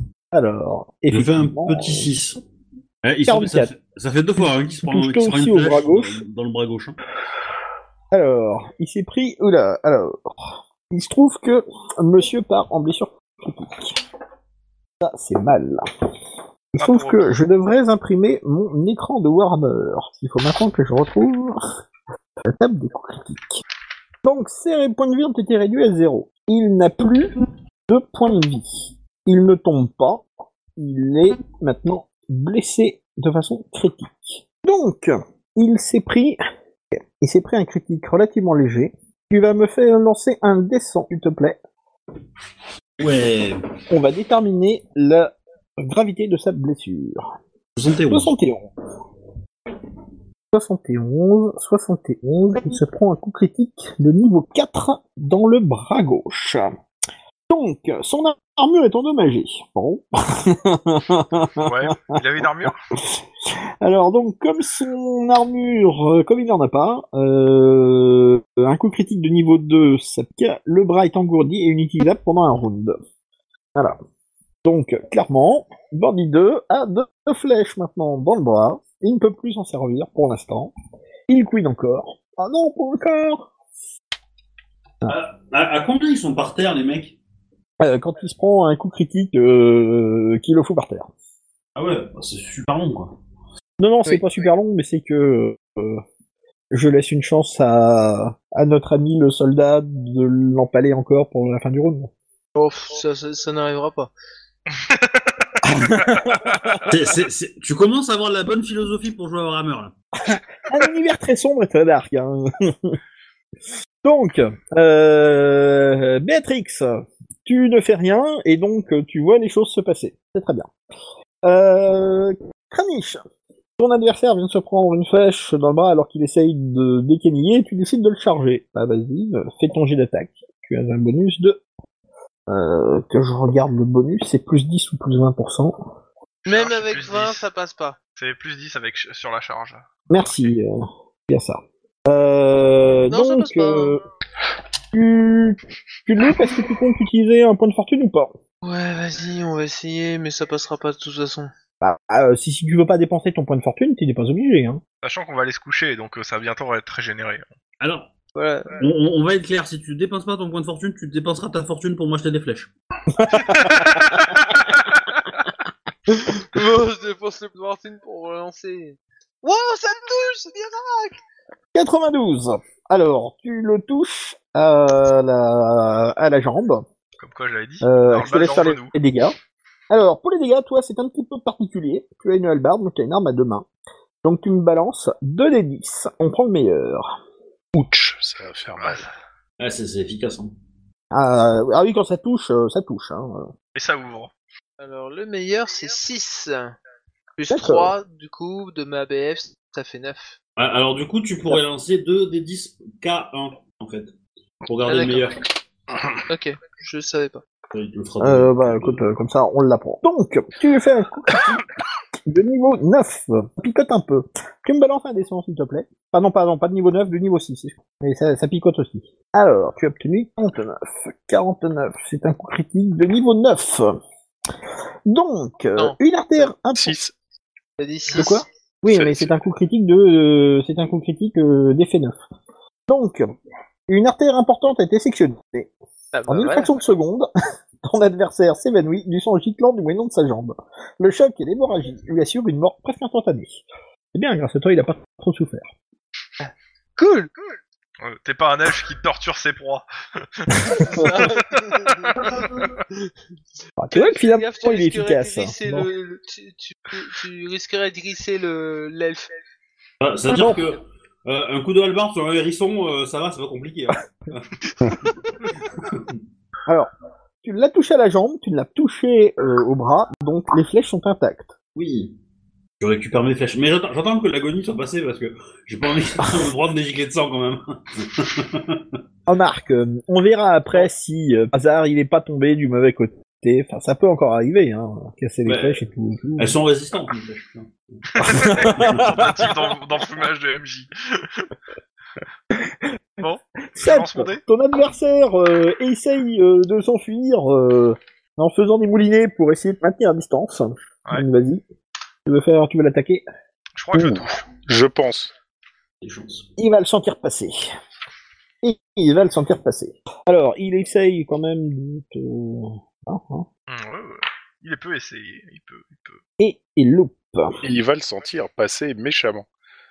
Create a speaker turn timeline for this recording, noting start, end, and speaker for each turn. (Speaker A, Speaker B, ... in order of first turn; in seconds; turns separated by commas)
Speaker A: 0.3-2.1, Speaker B: 1.1-2.4, Speaker B: 3.0-7.0, Speaker A: 3.3-3.7, Speaker A: 4.4-6.2, Speaker A: 8.1-14.0, Speaker A: 15.0-15.8, Speaker A: 16.7-21.6, Speaker C: 16.8-17.4, Speaker A: 22.4-23.6, Speaker A: 24.2-28.7, Speaker A: 29.3-30.2, Speaker A: 30.8-36.4, Speaker A: 36.9-41.6, Speaker B: 43.0-43.6, Speaker A: 43.9-47.3, Speaker B: 47.8-48.3, Speaker A: 48.1-48.7, Speaker A: 50.5-56.7, Speaker A: 57.5-62.2, Speaker C: 61.6-62.8, Speaker A: 63.0-73.0, Speaker A: 74.6-80.7, Speaker A: 81.3-83.5, Speaker B: 85.1-87.2, Speaker A: 87.8-91.1, Speaker B: 91.8-93.2, Speaker A: 93.8-96.0, Speaker A: 96.7-102.1, Speaker D: 102.5-104.1, Speaker C: 104.8-105.5, Speaker A: 106.0-106.7, Speaker C: 106.0-106.9, Speaker B: 106.9-109.9, Speaker A: 110.2-113.0, Speaker A: 114.0-120.7, Speaker A: 121.4-123.2, Speaker A: 123.8-131.6, Speaker A: 132.5-135.8, Speaker C: 136.5-137.4, Speaker D: 136.5-138.0, Speaker C: 138.2-140.6, Speaker A: 140.1-144.0, Speaker D: 143.1-144.0, Speaker A: 144.9-148.3, Speaker D: 148.6-151.5, Speaker A: 151.8-154.8, Speaker C: 155.0-157.5, Speaker B: 157.8-158.1, Speaker D: 158.3-158.8, Speaker B: 158.8-162.7, Speaker A: 163.1-164.1, Speaker C: 163.5-164.4, Speaker D: 166.1-171.2, Speaker A: 171.7-176.8, Speaker C: 177.2-178.9, Speaker A: 177.8-179.3, Speaker A: 179.9-183.7, Speaker A: 184.2-187.1, Speaker E: 187.7-189.1, Speaker C: 188.8-189.1, Speaker B: 189.6-190.5, Speaker A: 191.1-193.5, Speaker C: 193.8-194.3, Speaker D: 194.8-196.8, Speaker D: 197.4-200.3, Speaker A: 197.5-197.9, Speaker B: 200.6-204.1, Speaker B: 204.6-205.4, Speaker D: 204.9-205.3, Speaker D: 206.3-207.4, Speaker B: 207.7-209.0, Speaker A: 208.2-211.6, Speaker A: 212.3-223.9, Speaker A: 225.1-227.0, Speaker D: 225.8-226.5, Speaker E: 226.7-227.2, Speaker D: 227.8-228.4, Speaker A: 228.1-232.2, Speaker E: 228.9-229.4, Speaker A: 232.9-233.3, Speaker A: 233.9-235.7, Speaker D: 236.1-236.7, Speaker A: 236.3-237.3, Speaker A: 237.8-243.6, Speaker A: 244.1-245.7, Speaker D: 246.4-247.3, Speaker C: 248.0-252.5, Speaker A: 250.7-251.1, Speaker D: 250.8-253.1, Speaker A: 253.8-255.9, Speaker D: 253.9-259.3, Speaker B: 260.0-265.1, Speaker A: 260.3-260.6, Speaker B: 265.7-266.2, Speaker A: 267.4-271.5, Speaker B: 271.8-272.1, Speaker B: 272.8-279.0, Speaker A: 279.3-286.6, Speaker B: 285.5-285.8, Speaker B: 286.4-289.4, Speaker C: 288.1-291.5, Speaker A: 288.2-289.6, Speaker C: 293.2-294.4, Speaker A: 293.8-301.6, Speaker A: 302.3-303.2, Speaker C: 303.8-304.4, Speaker E: 303.9-305.3, Speaker B: 306.0-306.5, Speaker A: 306.6-307.7, Speaker A: 308.6-313.5, Speaker C: 313.7-316.2, Speaker A: 316.4-317.6, Speaker E: 317.6-319.5